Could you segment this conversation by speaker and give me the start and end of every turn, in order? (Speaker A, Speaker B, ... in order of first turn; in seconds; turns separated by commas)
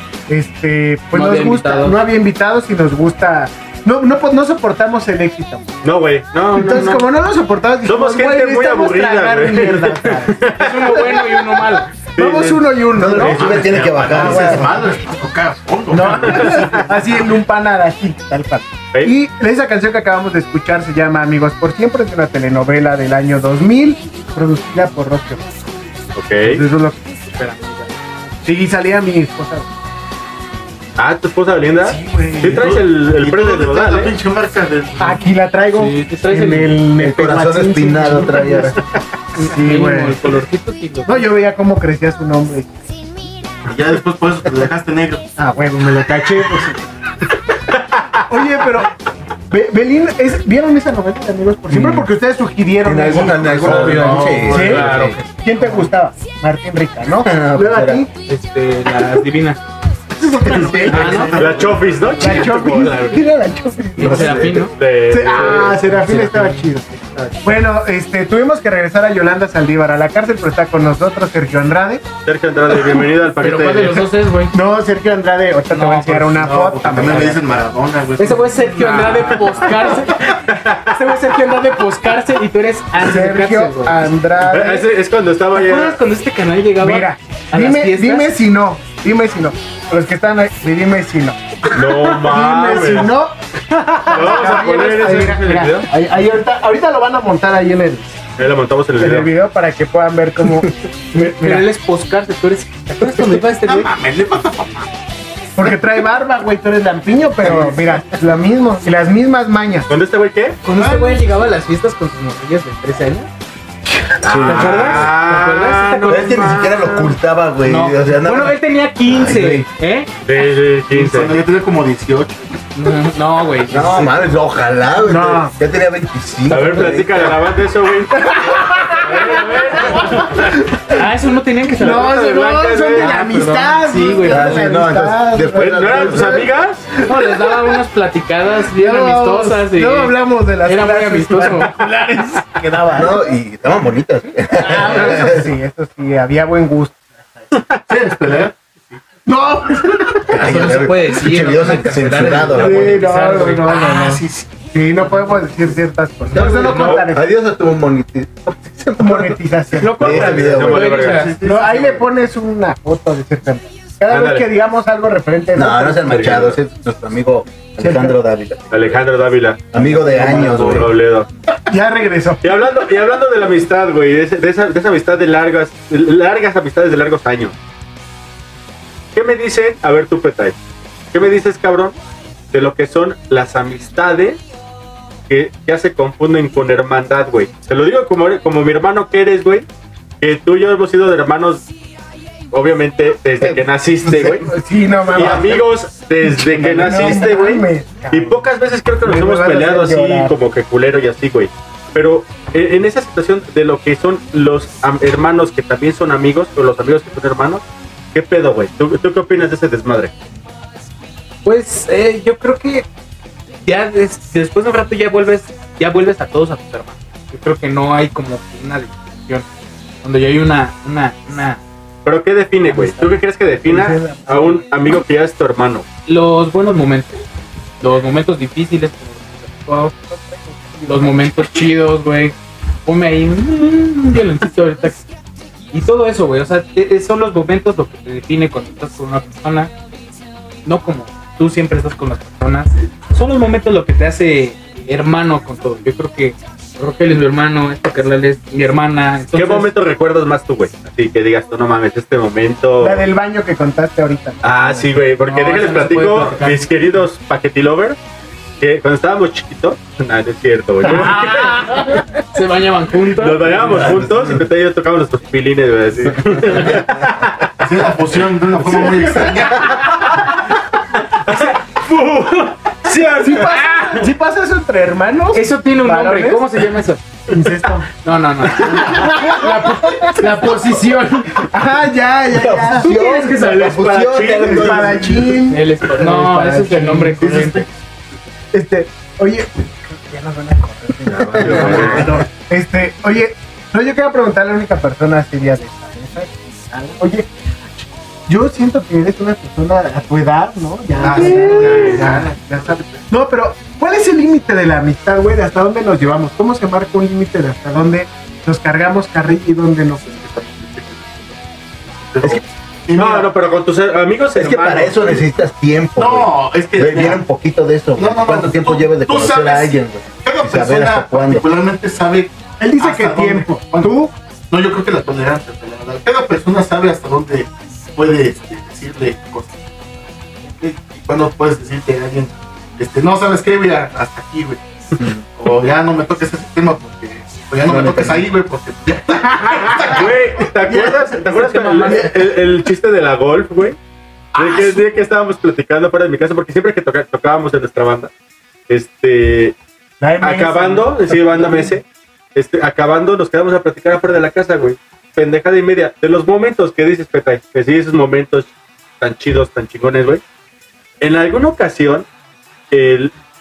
Speaker A: 0.3-5.7, Speaker B: 1.1-2.0, Speaker C: 5.8-7.1, Speaker A: 6.5-11.2, Speaker C: 7.8-10.9, Speaker B: 10.6-11.9, Speaker C: 12.2-12.7, Speaker A: 12.2-15.0, Speaker D: 13.0-14.8, Speaker E: 13.2-17.3, Speaker A: 15.9-25.5, Speaker C: 16.3-16.7, Speaker C: 26.2-26.6, Speaker A: 26.4-27.1, Speaker B: 27.3-27.9, Speaker A: 28.4-29.7, Speaker C: 31.0-34.2, Speaker A: 31.8-32.7, Speaker E: 32.5-35.2, Speaker A: 35.0-38.8, Speaker B: 35.7-36.8, Speaker D: 37.0-38.8, Speaker B: 39.4-41.3, Speaker A: 39.4-40.3, Speaker A: 41.1-42.7, Speaker E: 43.7-45.2, Speaker A: 45.4-46.8, Speaker A: 48.3-48.9, Speaker A: 49.5-58.1, Speaker D: 51.7-52.0, Speaker D: 52.8-55.2, Speaker E: 53.5-53.9, Speaker B: 53.6-55.9, Speaker C: 54.5-55.2, Speaker D: 57.2-58.0, Speaker B: 58.3-59.6, Speaker A: 60.2-61.6, Speaker D: 60.5-61.1, Speaker E: 60.5-62.2, Speaker B: 60.9-61.4, Speaker C: 61.3-63.2, Speaker A: 62.2-72.1, Speaker B: 62.2-62.8, Speaker B: 64.0-64.7, Speaker D: 64.0-64.7, Speaker C: 64.7-65.9, Speaker B: 65.3-67.3, Speaker C: 72.3-74.1, Speaker B: 73.4-74.5, Speaker A: 74.5-77.5, Speaker B: 75.7-77.4, Speaker E: 76.5-79.8, Speaker B: 78.2-80.2, Speaker A: 79.7-80.1, Speaker C: 80.5-80.9, Speaker A: 80.9-81.9, Speaker B: 81.4-84.0, Speaker A: 83.0-84.8, Speaker C: 84.4-86.0, Speaker B: 85.5-88.3, Speaker A: 86.8-98.2, Speaker C: 91.7-93.1, Speaker C: 94.1-95.9, Speaker C: 98.4-99.3, Speaker A: 99.0-101.7, Speaker B: 101.2-103.9, Speaker E: 103.6-104.9, Speaker A: 105.6-109.9, Speaker E: 107.5-108.0, Speaker C: 109.9-110.6, Speaker B: 110.6-113.3, Speaker E: 110.7-111.3, Speaker D: 114.2-115.2, Speaker C: 114.3-116.5, Speaker B: 114.4-120.1, Speaker D: 116.1-119.7, Speaker C: 120.3-121.4, Speaker E: 120.9-122.5, Speaker B: 122.8-124.1, Speaker D: 123.7-127.4, Speaker A: 125.0-125.6, Speaker C: 126.5-130.2, Speaker A: 128.2-129.0, Speaker B: 129.1-134.8, Speaker A: 131.7-136.5, Speaker C: 131.8-133.2, Speaker D: 134.2-136.5, Speaker C: 135.6-136.9, Speaker B: 137.0-142.4, Speaker A: 137.1-137.7, Speaker A: 138.7-143.3, Speaker D: 142.9-145.5, Speaker A: 144.6-147.0, Speaker E: 147.9-149.0, Speaker A: 149.3-150.4, Speaker D: 150.3-153.0, Speaker B: 150.4-154.1, Speaker A: 152.5-157.3, Speaker E: 153.7-154.6, Speaker B: 155.0-155.4, Speaker D: 156.3-161.0, Speaker B: 156.4-157.0, Speaker C: 156.4-157.0, Speaker A: 159.0-160.4, Speaker B: 159.8-161.4, Speaker C: 160.1-161.3, Speaker E: 161.0-162.1, Speaker A: 161.4-166.3, Speaker C: 164.1-164.5, Speaker D: 165.5-169.0, Speaker C: 166.0-166.6, Speaker A: 167.8-168.2, Speaker C: 168.7-171.3, Speaker D: 169.7-170.9, Speaker A: 171.7-172.6, Speaker C: 172.4-177.6, Speaker C: 179.1-180.6, Speaker C: 181.1-182.0, Speaker C: 182.5-184.4, Speaker C: 185.3-189.7, Speaker C: 190.2-191.7, Speaker C: 192.5-194.5, Speaker A: 193.4-195.7, Speaker C: 195.1-210.1, Speaker A: 196.2-198.4, Speaker A: 199.0-200.3, Speaker B: 211.4-212.9, Speaker B: 213.7-219.5, Speaker B: 220.0-221.6, Speaker C: 222.1-225.9, Speaker B: 222.7-223.2, Speaker A: 223.7-224.6, Speaker B: 226.1-227.2, Speaker B: 227.8-229.9, Speaker A: 230.1-231.2, Speaker B: 230.9-232.3, Speaker B: 232.9-235.0, Speaker B: 235.7-239.7, Speaker B: 240.7-249.7, Speaker C: 249.3-253.1, Speaker A: 252.8-255.1, Speaker C: 254.4-258.0, Speaker B: 255.2-256.9, Speaker C: 258.6-262.0, Speaker B: 260.9-263.9, Speaker C: 263.1-267.5, Speaker D: 263.9-264.2, Speaker E: 267.6-270.1, Speaker C: 268.8-270.2, Speaker C: 271.2-273.6, Speaker A: 273.2-276.6, Speaker B: 275.3-277.0, Speaker A: 277.3-277.9, Speaker B: 278.0-281.3, Speaker A: 278.6-280.7, Speaker A: 281.3-282.9, Speaker D: 282.4-285.4, Speaker B: 282.8-283.7, Speaker C: 283.2-285.2, Speaker A: 284.4-287.2, Speaker B: 285.5-287.6, Speaker E: 287.2-287.7, Speaker A: 288.5-297.3, Speaker D: 291.0-292.1, Speaker C: 291.3-292.2, Speaker A: 298.3-310.5, Speaker E: 300.9-303.1, Speaker C: 301.1-301.7, Speaker E: 310.1-311.3, Speaker E: 312.0-313.3, Speaker C: 313.0-315.2, Speaker D: 314.4-321.5, Speaker E: 316.0-317.2, Speaker E: 318.0-324.0, Speaker A: 322.6-324.1, Speaker E: 324.5-329.6, Speaker E: 330.3-334.6, Speaker E: 335.4-341.2, Speaker D: 337.6-338.3, Speaker A: 339.4-339.9, Speaker C: 339.9-343.8, Speaker A: 340.9-342.1, Speaker E: 341.7-342.0, Speaker C: 344.4-348.1, Speaker C: 348.7-349.6, Speaker A: 350.0-351.8, Speaker C: 350.2-351.8, Speaker C: 352.4-360.2, Speaker C: 361.0-362.1, Speaker C: 362.7-363.1